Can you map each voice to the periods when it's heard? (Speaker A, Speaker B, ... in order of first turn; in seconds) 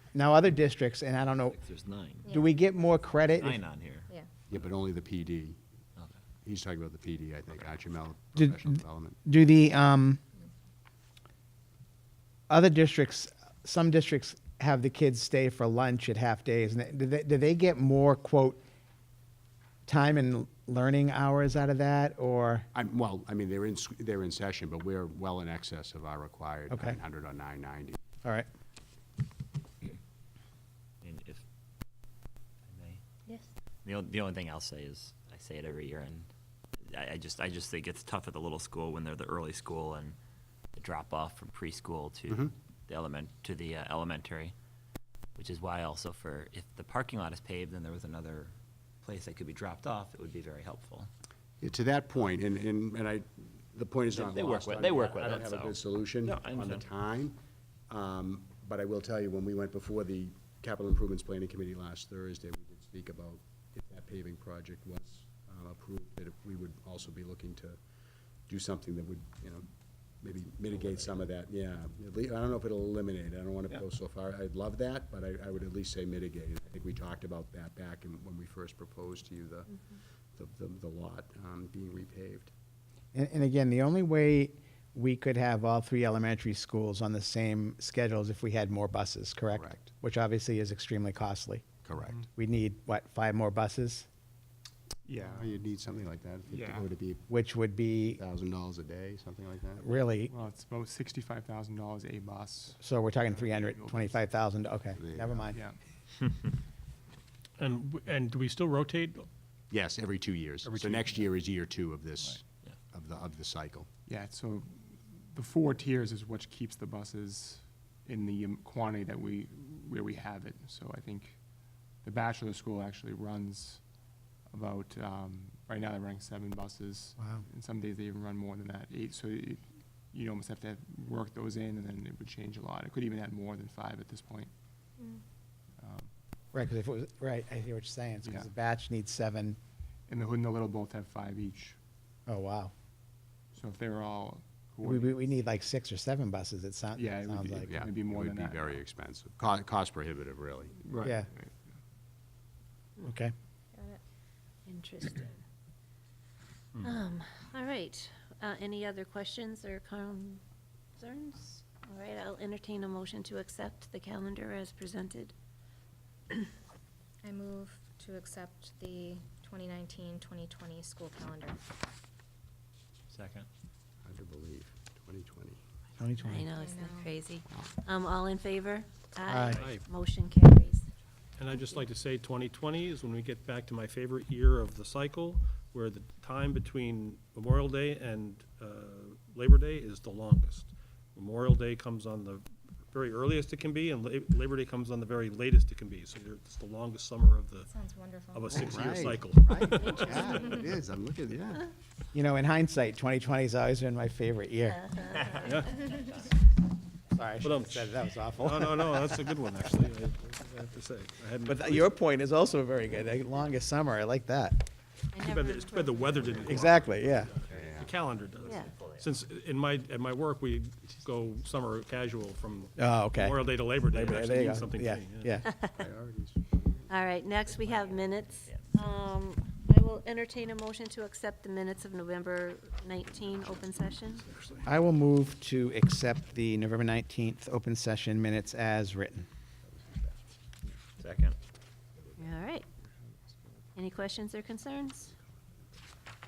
Speaker A: 0.1-1.6, 2.3-3.6, 8.3-10.2, 12.5-18.6, 19.9-22.7, 26.7-27.0, 83.1-91.7, 92.3-94.1, 97.3-98.2, 99.8-100.3, 102.8-105.6, 127.2-127.4, 136.5-139.6, 142.3-142.7, 144.8-147.8, 151.0-151.3, 153.0-153.3, 176.0-176.5, 179.3-179.6, 202.1-204.9, 207.1-209.2, 211.4-214.6, 216.4-217.3, 222.8-225.5, 234.6-239.3
Speaker B: 1.6-2.2, 3.4-4.1, 31.0-31.4, 32.7-33.0, 33.8-36.3, 36.9-40.2, 40.8-44.5, 45.4-51.1, 54.1-56.8, 173.1-173.5, 218.4-219.1, 227.5-228.5, 241.0-241.3
Speaker C: 2.2-2.6, 153.7-154.0, 167.2-171.6, 176.5-177.2, 197.7-199.0, 200.2-200.6
Speaker D: 4.5-5.6, 6.4-9.2, 22.7-28.0, 51.6-57.4, 57.9-67.8, 68.5-69.7, 70.2-79.7, 80.3-82.5, 89.5-89.8, 91.8-92.2, 95.1-97.3, 98.1-99.8, 105.0-105.4, 109.7-113.9, 147.7-150.8, 174.0-175.6, 198.5-201.7, 216.4-216.8, 217.5-217.9, 225.7-226.9, 239.7-240.2
Speaker E: 92.0-92.2, 95.1-95.7, 96.5-96.9, 100.3-104.2, 105.4-105.8, 114.1-121.4, 122.0-123.8, 124.5-134.5, 135.8-136.1, 140.1-141.8, 143.5-145.2, 146.9-148.8, 150.8-151.5
Speaker F: 107.6-109.3, 110.7-111.1, 179.5-179.8, 181.4-197.7, 198.3-200.6, 205.4-205.8, 207.4-211.9, 215.2-225.4
Speaker G: 154.7-155.4, 156.8-160.4, 161.0-165.3, 176.2-180.9, 204.9-205.3, 215.1-216.1, 218.5-218.7, 225.4-225.7, 226.9-234.2, 242.2-242.7, 243.8-245.1